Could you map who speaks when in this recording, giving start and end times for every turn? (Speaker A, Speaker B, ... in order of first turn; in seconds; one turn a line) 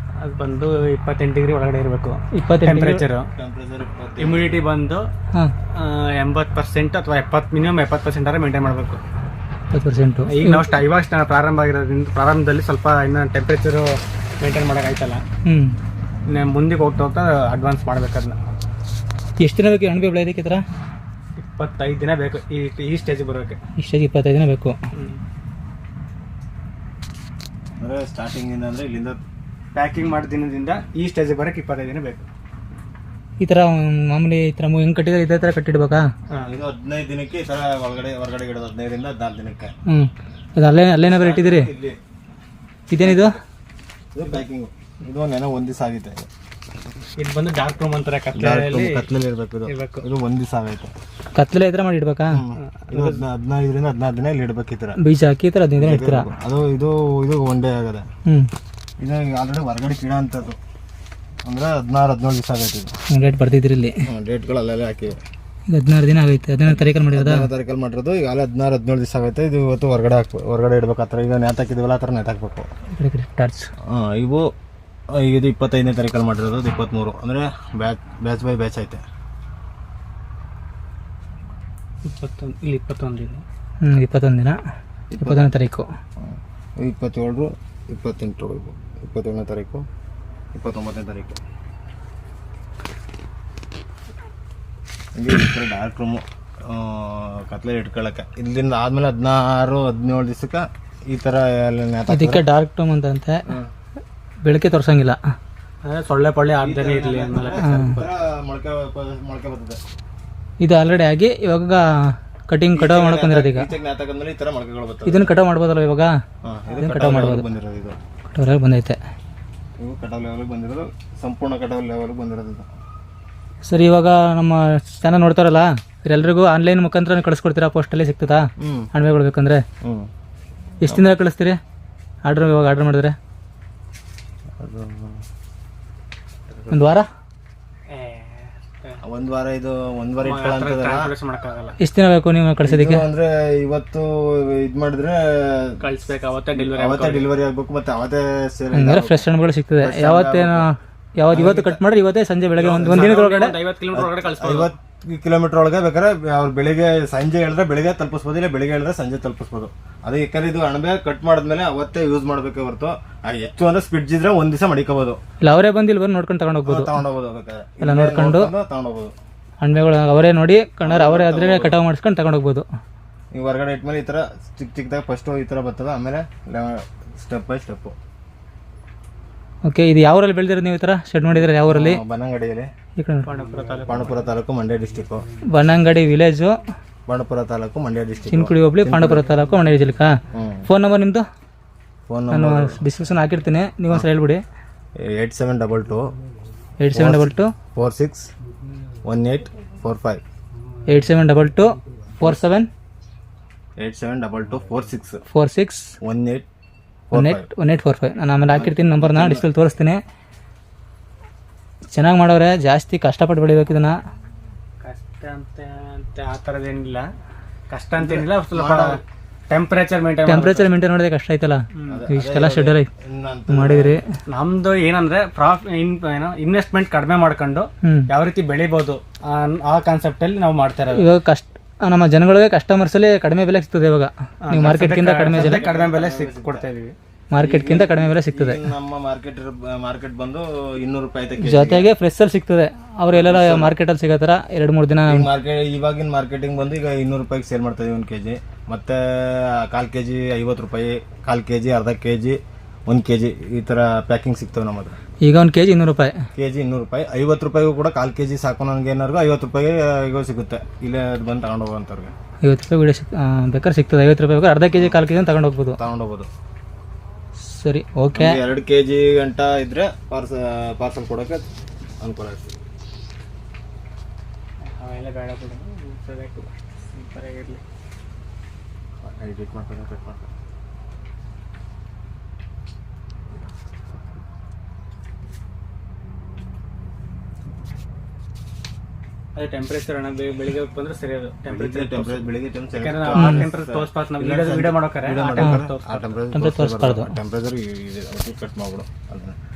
Speaker A: 0.1-3.3
Speaker B: 2.3-3.0
Speaker C: 3.4-4.5
Speaker A: 4.2-5.1
Speaker A: 5.7-9.0
Speaker B: 9.7-10.7
Speaker A: 10.3-15.2
Speaker B: 15.4-15.8
Speaker A: 16.3-18.4
Speaker B: 19.4-20.6
Speaker A: 21.4-23.6
Speaker B: 23.8-24.7
Speaker A: 24.9-25.2
Speaker C: 27.8-29.2
Speaker A: 29.8-32.2
Speaker B: 33.4-36.1
Speaker A: 36.3-36.6
Speaker C: 36.3-39.7
Speaker B: 39.9-41.7
Speaker C: 41.1-42.0
Speaker B: 42.9-43.4
Speaker C: 43.0-43.4
Speaker C: 44.1-46.3
Speaker A: 47.2-49.1
Speaker C: 48.3-50.9
Speaker A: 49.7-50.0
Speaker B: 51.4-52.4
Speaker C: 52.3-55.0
Speaker A: 52.6-53.2
Speaker B: 55.0-56.3
Speaker C: 55.8-58.1
Speaker C: 59.0-60.6
Speaker C: 61.5-62.9
Speaker B: 63.1-64.0
Speaker C: 64.1-65.2
Speaker B: 65.7-67.5
Speaker C: 66.7-72.7
Speaker B: 72.9-73.7
Speaker C: 73.9-74.5
Speaker C: 75.1-79.0
Speaker A: 82.0-83.4
Speaker B: 83.8-84.6
Speaker C: 85.1-85.5
Speaker B: 85.2-85.9
Speaker C: 86.2-89.8
Speaker C: 90.5-91.4
Speaker C: 95.2-102.5
Speaker B: 102.1-103.5
Speaker B: 104.4-105.2
Speaker A: 105.8-107.7
Speaker C: 106.6-109.8
Speaker B: 107.5-108.0
Speaker B: 110.6-113.7
Speaker C: 112.7-115.3
Speaker B: 115.1-116.1
Speaker C: 116.4-118.0
Speaker B: 116.8-117.5
Speaker B: 118.3-119.0
Speaker C: 119.8-122.7
Speaker B: 123.7-129.6
Speaker C: 128.6-128.9
Speaker C: 129.8-130.1
Speaker B: 130.8-131.6
Speaker B: 132.2-133.2
Speaker C: 134.6-135.2
Speaker C: 136.5-136.9
Speaker B: 136.7-137.1
Speaker A: 137.9-139.0
Speaker C: 139.0-141.1
Speaker A: 140.2-141.8
Speaker B: 141.8-143.1
Speaker C: 142.6-145.9
Speaker A: 145.8-147.3
Speaker C: 146.6-149.3
Speaker B: 148.7-153.6
Speaker C: 149.8-150.7
Speaker C: 151.3-151.8
Speaker A: 152.6-154.7
Speaker C: 152.7-153.2
Speaker C: 153.9-165.2
Speaker B: 165.4-167.0
Speaker C: 166.7-169.1
Speaker B: 167.8-168.5
Speaker B: 169.6-172.7
Speaker C: 170.8-171.8
Speaker C: 173.3-178.0
Speaker B: 179.7-182.0
Speaker C: 181.3-182.7
Speaker B: 183.0-183.3
Speaker A: 183.2-184.2
Speaker C: 183.8-185.2
Speaker B: 185.5-186.6
Speaker C: 187.1-189.4
Speaker B: 188.3-191.2
Speaker C: 190.3-190.7
Speaker C: 192.1-192.8
Speaker B: 192.3-194.4
Speaker C: 195.0-196.1
Speaker B: 196.8-197.6
Speaker C: 196.9-198.3
Speaker C: 199.0-200.2
Speaker B: 200.9-202.7
Speaker C: 203.8-205.2
Speaker B: 205.3-206.0
Speaker C: 206.0-206.4
Speaker C: 207.1-207.5
Speaker B: 207.1-210.0
Speaker C: 208.5-209.5
Speaker B: 211.9-213.9
Speaker A: 214.8-217.1
Speaker A: 217.7-220.7
Speaker C: 218.0-219.0
Speaker B: 220.3-222.9
Speaker A: 221.8-222.0
Speaker C: 221.9-224.0
Speaker B: 223.5-224.0
Speaker A: 224.3-231.1
Speaker B: 227.8-228.1
Speaker B: 230.9-235.7
Speaker A: 234.4-236.9
Speaker C: 234.6-236.7
Speaker B: 237.3-238.7
Speaker C: 237.4-241.9
Speaker B: 241.4-245.3
Speaker C: 243.1-243.8
Speaker C: 245.1-255.0
Speaker B: 255.2-256.3
Speaker C: 256.3-262.1
Speaker B: 262.4-265.8
Speaker C: 264.8-265.0
Speaker C: 265.8-266.3
Speaker B: 267.4-268.4
Speaker C: 268.1-271.5
Speaker C: 272.0-272.5
Speaker A: 274.6-277.6
Speaker C: 279.0-280.3
Speaker A: 289.4-296.1
Speaker C: 291.5-299.4
Speaker B: 293.1-293.5
Speaker B: 296.3-297.1